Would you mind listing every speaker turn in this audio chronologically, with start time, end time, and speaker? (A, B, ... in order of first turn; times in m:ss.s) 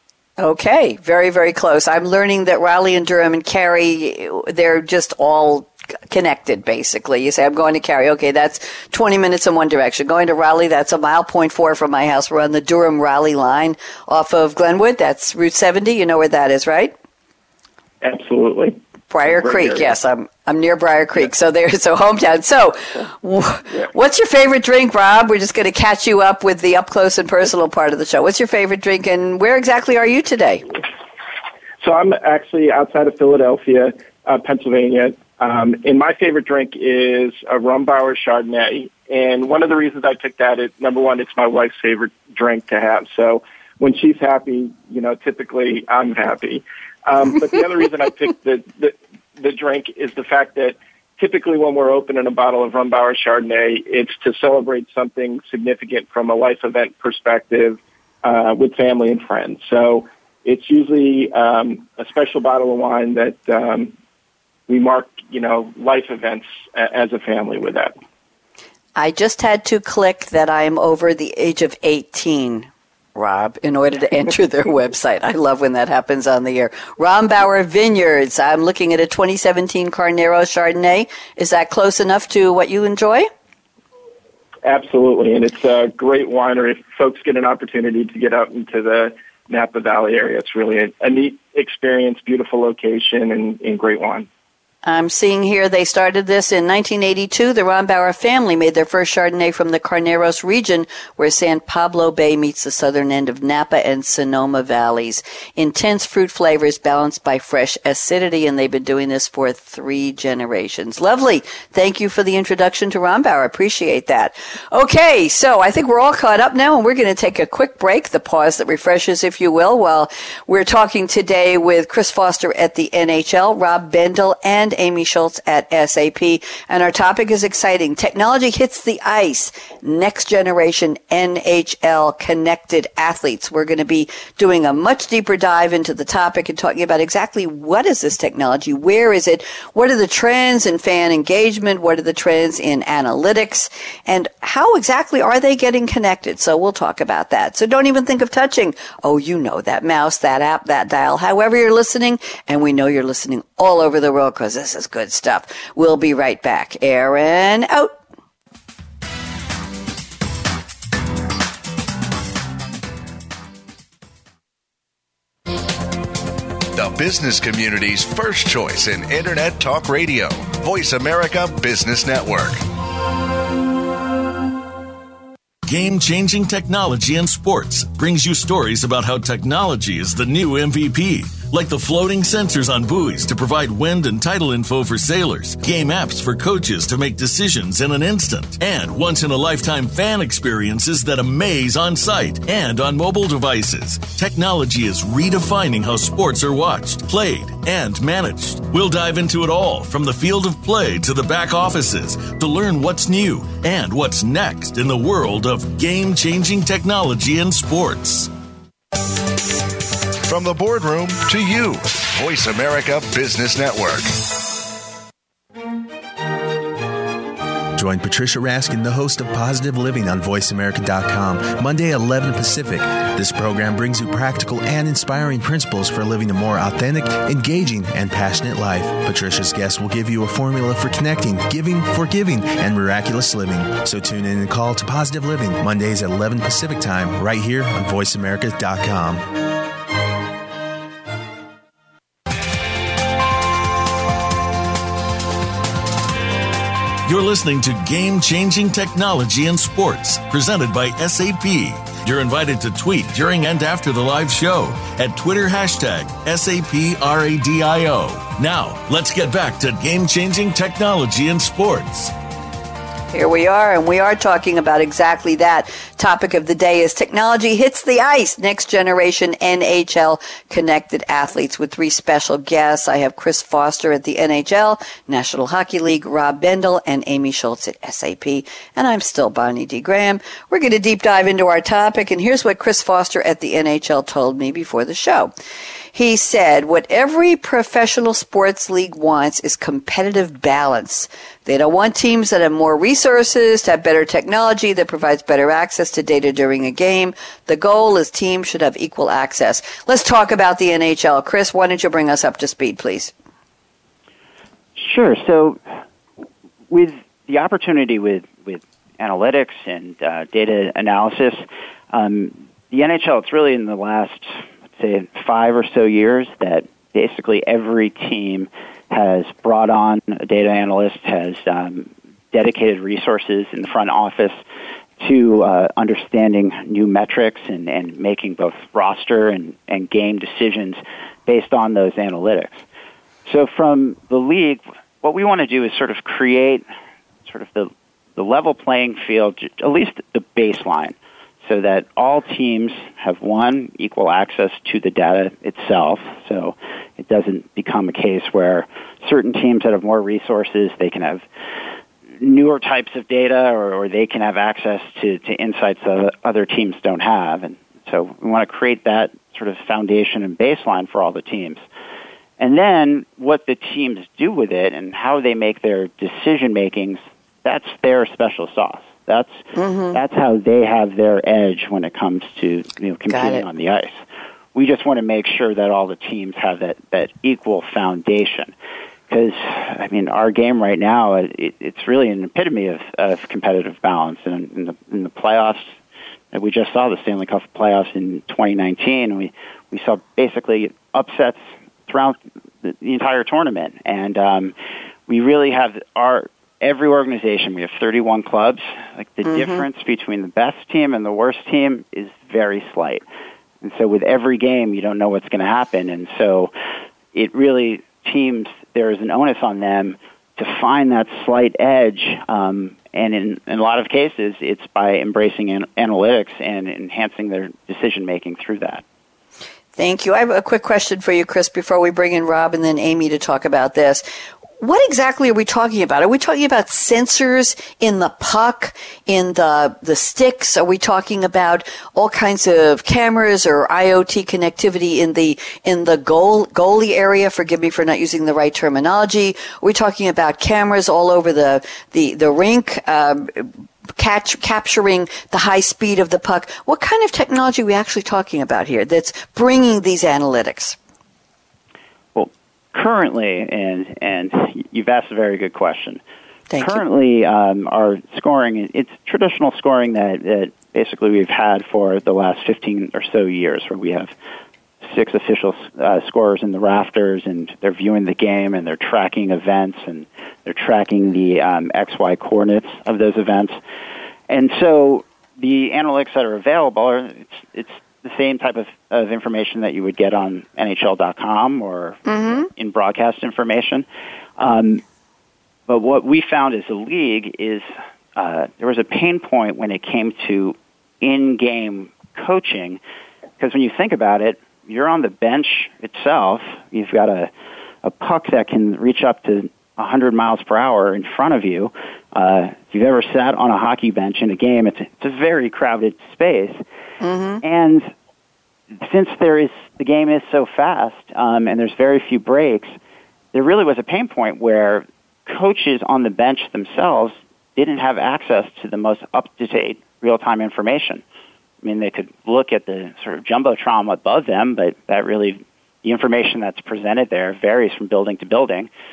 0:00.4-0:16.9 A
0:18.0-0:19.9 B
0:19.1-0:30.6 A
0:31.8-1:03.9 B
1:04.7-1:07.9 B
1:09.0-1:23.3 A
1:24.6-1:34.3 B
1:34.8-2:37.9 A
2:46.7-2:52.6 C
2:55.6-3:28.3 D
3:30.2-3:34.1 C
3:37.8-3:59.3 E
4:07.0-4:22.1 D
4:23.1-4:45.3 A
4:45.9-5:03.1 A
5:04.8-5:05.6 F
5:06.7-5:24.4 F
5:25.0-5:32.6 F
5:33.2-5:36.6 F
5:37.2-5:51.2 F
5:52.2-6:01.6 F
6:02.4-6:14.0 F
6:09.5-6:10.0 A
6:13.1-6:13.4 A
6:14.5-6:18.5 F
6:19.1-6:25.7 F
6:26.3-6:34.5 F
6:35.1-6:43.0 F
6:39.3-6:39.6 A
6:43.6-6:46.5 F
6:47.1-6:58.8 F
6:59.8-7:04.0 A
7:04.6-7:30.8 A
7:32.1-7:36.0 F
7:36.5-7:36.8 A
7:36.6-7:44.1 F
7:44.8-7:53.6 F
7:54.3-8:03.8 F
8:02.1-8:02.4 A
8:04.4-8:04.8 F
8:05.7-8:12.8 F
8:13.4-8:17.3 F
8:17.8-8:26.6 F
8:27.0-8:27.4 A
8:27.4-8:27.9 F
8:28.8-8:32.7 F
8:33.3-8:41.0 F
8:41.6-8:48.7 F